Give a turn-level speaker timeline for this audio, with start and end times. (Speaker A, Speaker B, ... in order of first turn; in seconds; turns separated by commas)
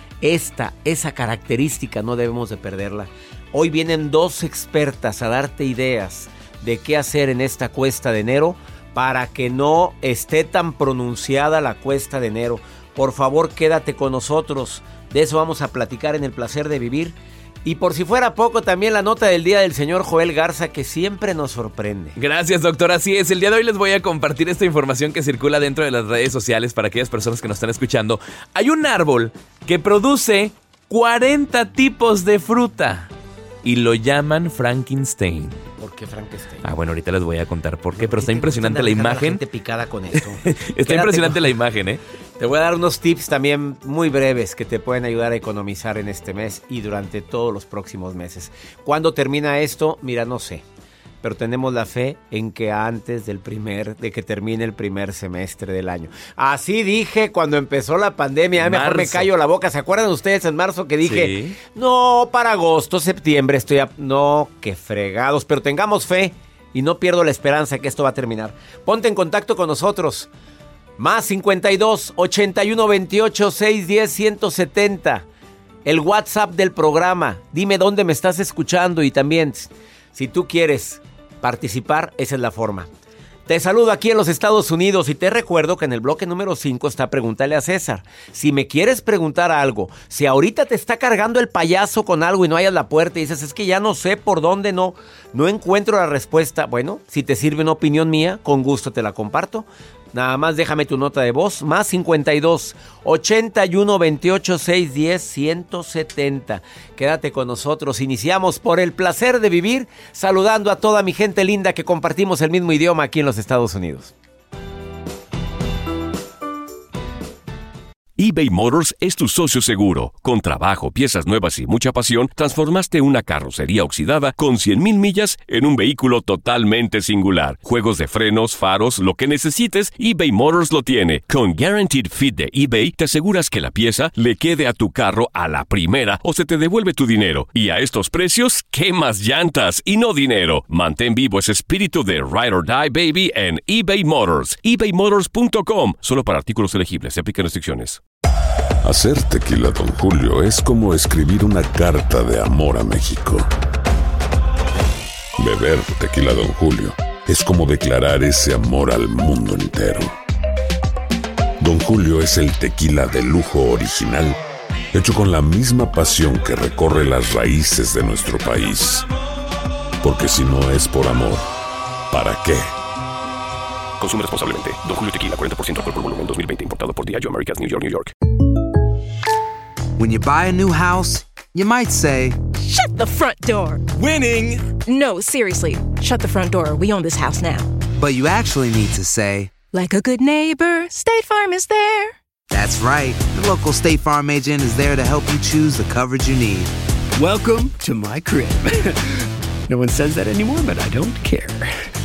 Speaker A: 0.2-22.2, Speaker B: 22.2-33.1, Speaker B: 33.6-35.6, Speaker A: 35.8-36.7, Speaker B: 36.6-39.4, Speaker A: 38.0-41.4, Speaker B: 40.3-42.0, Speaker A: 42.4-50.6, Speaker A: 51.2-70.3, Speaker B: 58.6-59.3, Speaker B: 61.0-61.6, Speaker A: 71.0-75.2, Speaker A: 75.8-82.9, Speaker A: 83.5-114.1, Speaker C: 118.2-148.0, Speaker D: 148.8-153.5, Speaker D: 155.4-160.2, Speaker D: 161.6-164.4, Speaker D: 164.9-169.1, Speaker D: 170.0-171.5, Speaker D: 172.1-172.8, Speaker C: 174.0-178.1, Speaker E: 180.0-182.4, Speaker F: 182.5-183.8, Speaker F: 184.8-187.7, Speaker E: 188.0-189.6, Speaker F: 189.7-192.2, Speaker E: 192.5-196.7, Speaker G: 197.2-198.9, Speaker E: 197.2-197.8, Speaker G: 199.7-201.9